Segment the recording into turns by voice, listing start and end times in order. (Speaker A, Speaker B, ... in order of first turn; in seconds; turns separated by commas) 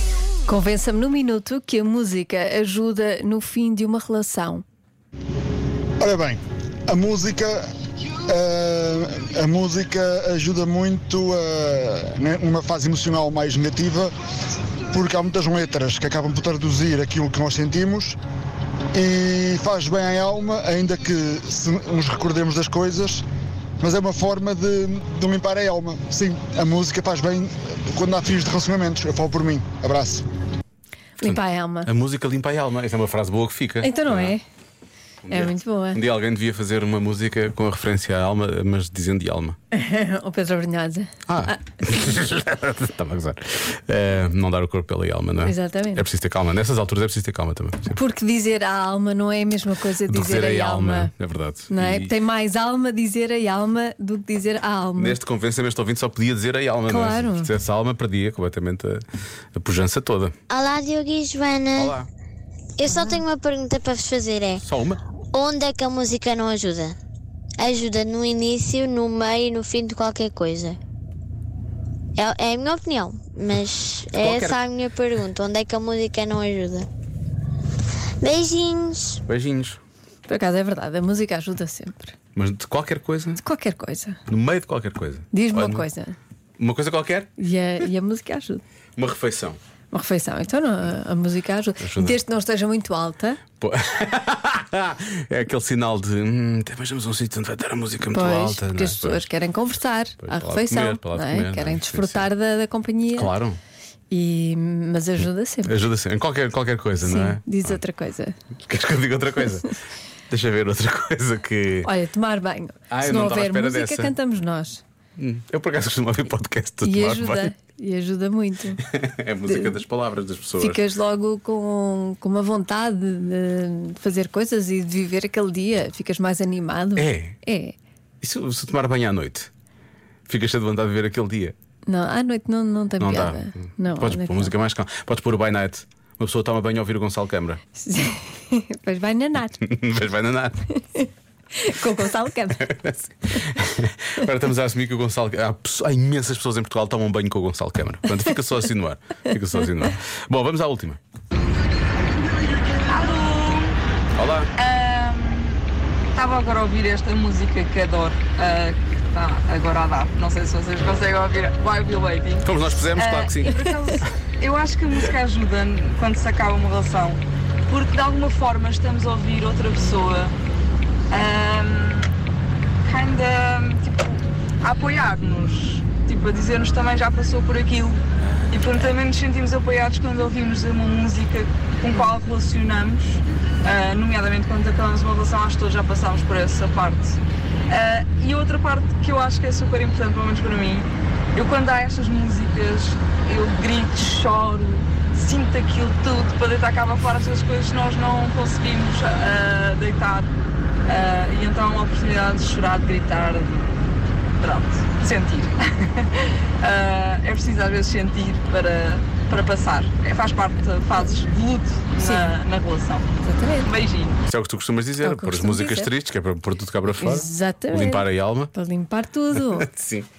Speaker A: 0.5-4.6, Speaker B: 6.0-7.6, Speaker B: 8.3-14.1, Speaker B: 14.9-18.2, Speaker B: 18.9-23.2, Speaker B: 23.8-30.2, Speaker A: 31.2-31.9, Speaker C: 31.2-34.3, Speaker A: 33.8-34.4, Speaker C: 35.2-39.6, Speaker A: 35.3-36.0, Speaker A: 39.7-41.8, Speaker C: 41.3-48.0, Speaker A: 45.4-46.0, Speaker A: 47.9-51.1, Speaker C: 50.0-52.1, Speaker A: 51.7-55.2, Speaker C: 55.0-60.4, Speaker A: 56.9-57.5, Speaker D: 60.5-61.9, Speaker C: 61.7-62.1, Speaker D: 62.8-64.6, Speaker A: 63.0-63.2, Speaker C: 64.6-65.0, Speaker D: 65.3-67.0, Speaker D: 67.6-70.8, Speaker D: 72.2-76.9, Speaker C: 74.1-74.7, Speaker D: 78.2-79.2, Speaker C: 79.3-79.8, Speaker A: 80.3-82.1, Speaker C: 82.3-83.4, Speaker A: 83.4-84.2, Speaker C: 84.3-85.8, Speaker A: 85.3-86.2, Speaker C: 86.6-87.3, Speaker A: 87.4-88.6, Speaker C: 89.0-89.6, Speaker A: 89.9-93.4, Speaker C: 91.8-92.2, Speaker C: 93.6-99.3, Speaker A: 98.1-103.3, Speaker C: 100.2-102.2, Speaker C: 103.1-103.6, Speaker A: 104.1-105.8, Speaker C: 105.7-107.8, Speaker A: 107.0-108.3, Speaker C: 108.7-109.8, Speaker C: 110.3-111.9, Speaker A: 111.8-114.8, Speaker C: 112.9-114.1, Speaker C: 115.2-117.5, Speaker A: 116.8-118.8, Speaker C: 118.8-120.8, Speaker A: 119.5-119.8, Speaker A: 120.6-127.8, Speaker C: 127.0-127.3, Speaker C: 128.2-129.5, Speaker C: 130.3-131.5, Speaker A: 131.8-134.5, Speaker C: 133.0-137.6, Speaker A: 137.8-139.6, Speaker C: 139.6-140.6, Speaker A: 140.9-142.7, Speaker C: 142.6-151.0, Speaker E: 152.8-153.8, Speaker C: 154.1-154.5, Speaker E: 154.6-155.6, Speaker E: 156.1-170.3, Speaker C: 162.4-163.6, Speaker E: 171.1-172.1, Speaker E: 172.8-200.3, Speaker E: 200.8-203.8, Speaker E: 204.4-213.1, Speaker A: 211.9-212.3, Speaker A: 213.2-213.7, Speaker E: 213.6-214.2, Speaker C: 214.2-218.5, Speaker A: 215.0-215.9, Speaker A: 216.9-219.7, Speaker C: 219.3-220.1